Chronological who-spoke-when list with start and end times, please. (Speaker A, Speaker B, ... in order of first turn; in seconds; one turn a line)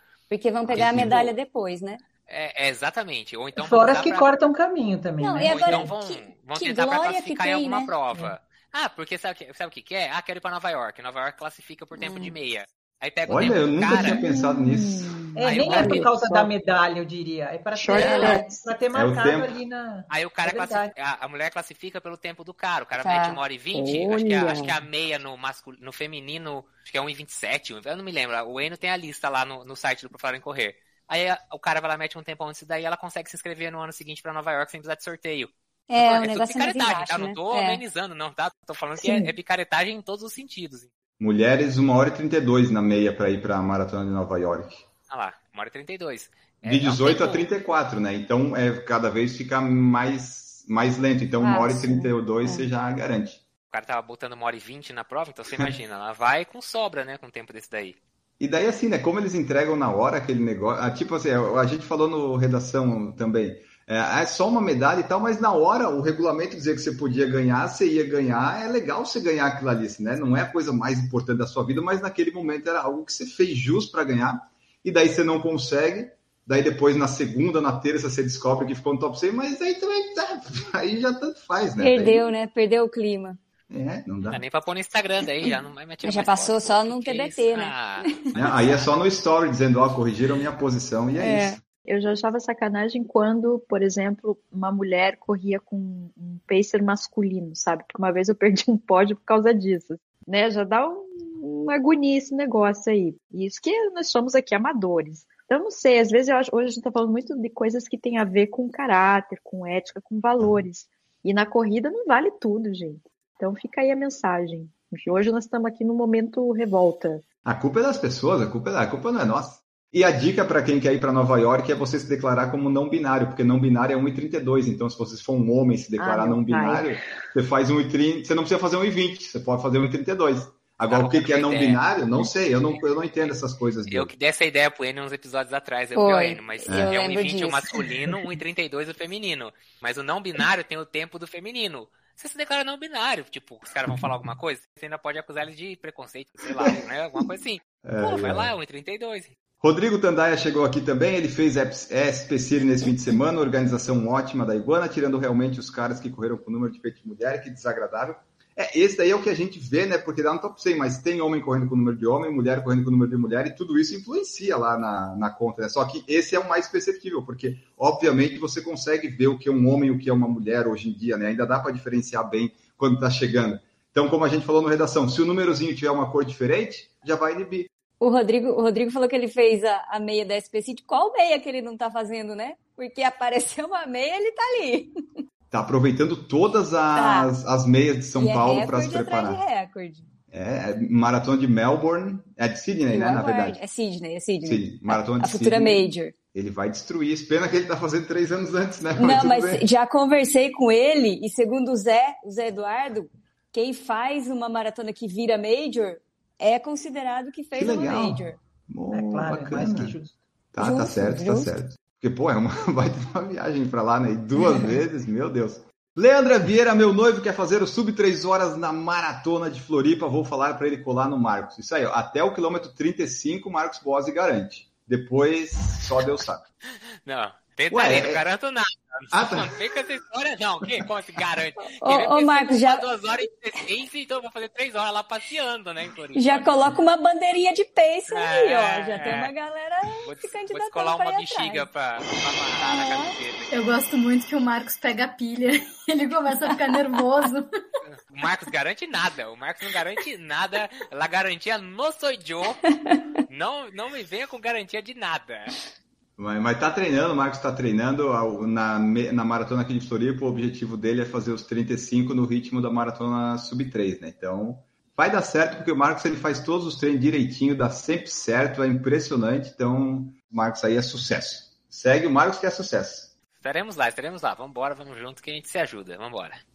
Speaker A: 0.3-2.0
Speaker B: 0.7-1.4
Speaker C: 2.3-4.3
Speaker D: 3.6-5.9
Speaker A: 5.2-7.9
Speaker C: 5.4-14.2
Speaker A: 12.0-12.3
Speaker B: 13.3-15.3
Speaker E: 13.9-16.5
Speaker D: 15.4-20.9
Speaker C: 15.4-16.1
Speaker E: 17.7-18.6
Speaker A: 17.9-18.5
Speaker B: 18.9-19.6
Speaker C: 20.1-40.9
Speaker A: 23.0-23.4
Speaker E: 23.7-24.8
Speaker A: 35.9-37.8
Speaker B: 41.2-44.9
Speaker C: 45.1-47.5
Speaker B: 46.7-53.4
Speaker A: 51.4-52.7
Speaker C: 53.7-58.0
Speaker B: 58.4-82.3
Speaker A: 81.8-83.4
Speaker B: 83.7-84.4
Speaker C: 84.3-88.1
Speaker A: 86.0-88.5
Speaker B: 88.3-91.6
Speaker A: 91.2-91.6
Speaker E: 91.9-117.2
Speaker B: 117.5-134.1
Speaker E: 126.0-127.0
Speaker C: 130.9-131.8
Speaker C: 132.7-133.3
Speaker C: 133.9-149.4
Speaker A: 136.0-137.9
Speaker B: 147.8-148.5
Speaker B: 149.6-177.7
Speaker A: 178.0-185.0
Speaker B: 185.5-189.4
Speaker A: 186.9-187.3
Speaker A: 188.2-190.1
Speaker B: 190.3-193.6
Speaker A: 192.9-196.2
Speaker B: 194.4-199.6
Speaker A: 199.0-208.4
Speaker B: 207.6-210.0
Speaker D: 208.9-210.2
Speaker B: 210.5-226.4
Speaker A: 210.6-211.5
Speaker A: 214.4-214.7
Speaker C: 227.1-236.5
Speaker B: 227.7-228.2
Speaker B: 229.1-229.8
Speaker A: 231.7-232.8
Speaker A: 236.2-241.7
Speaker C: 238.1-239.3
Speaker C: 240.0-243.5
Speaker A: 242.6-243.1
Speaker F: 243.5-247.5
Speaker C: 247.9-252.7
Speaker A: 252.7-253.0
Speaker C: 253.3-255.6
Speaker B: 256.2-273.1
Speaker C: 273.4-276.4